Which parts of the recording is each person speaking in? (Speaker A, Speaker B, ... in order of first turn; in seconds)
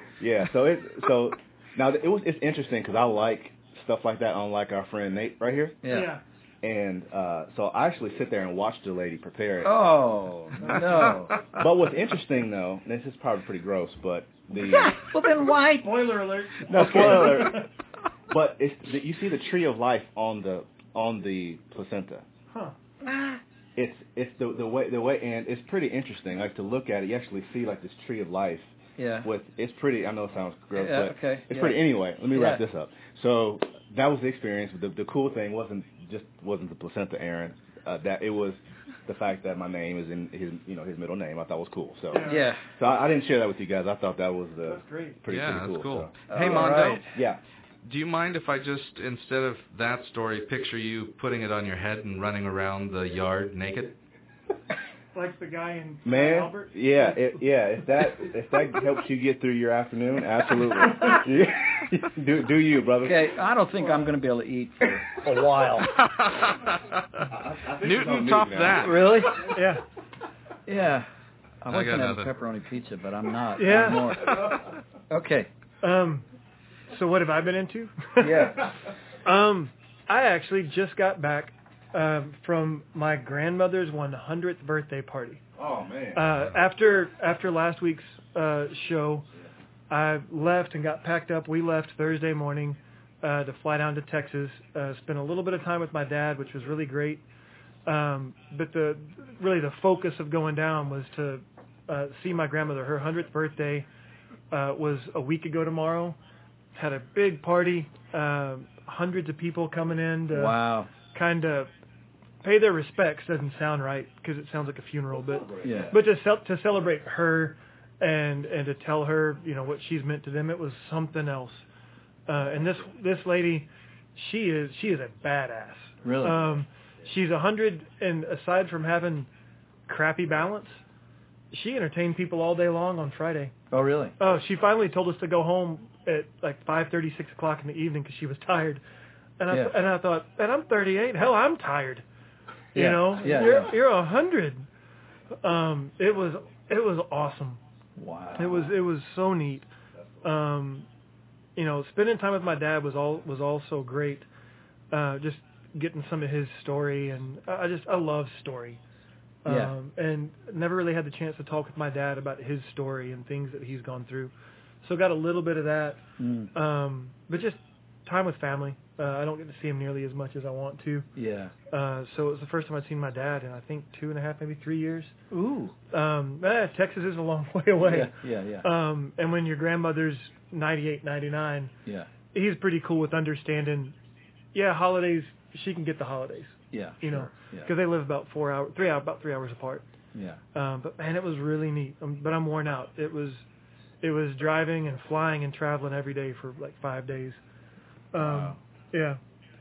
Speaker A: 0.2-5.8, 6.6-9.8, 11.5-15.1, 16.6-17.7, 18.3-22.2, 23.8-28.7, 29.2-47.4, 56.0-63.3, 67.2-69.0, 85.6-86.4, 115.6-115.9
Speaker B: 5.8-6.2, 9.6-11.3, 14.5-16.0, 16.8-17.6, 23.0-23.4, 29.0-29.3, 30.7-32.6, 42.2-42.6, 46.3-47.1, 63.0-66.0, 68.8-69.5, 70.7-71.1, 71.6-75.5, 78.2-78.7, 110.3-110.9, 115.6-116.0, 126.0-126.5, 133.7-134.2, 139.5-139.7, 142.7-143.7, 147.9-148.7, 159.4-159.7, 166.2-166.5, 171.1-171.5, 175.3-175.7, 177.8-178.7, 186.7-187.7, 190.1-190.4, 198.2-198.5
Speaker C: 5.9-6.2, 10.6-11.1, 15.8-17.7, 42.1-42.5, 44.6-45.2, 55.1-57.2, 69.5-69.8, 73.6-74.2, 75.8-76.3, 76.9-78.6, 79.2-85.4, 86.1-89.3, 89.9-97.2, 97.8-103.9, 104.5-106.2, 106.7-111.7, 112.4-121.6, 122.3-129.3, 129.9-130.8, 131.5-133.5, 134.2-138.8, 139.4-142.0, 142.7-144.7, 145.4-147.6, 148.3-149.7, 150.2-150.9, 151.6-154.3, 154.9-158.8, 159.4-166.0, 166.5-171.1, 171.7-175.1, 175.9-178.1, 178.6-181.7, 182.3-183.9, 184.5-189.8, 190.5-193.4, 194.0-197.4, 198.1-199.2
Speaker D: 45.3-47.2, 47.8-54.0, 65.8-67.0, 67.8-69.3, 71.7-72.3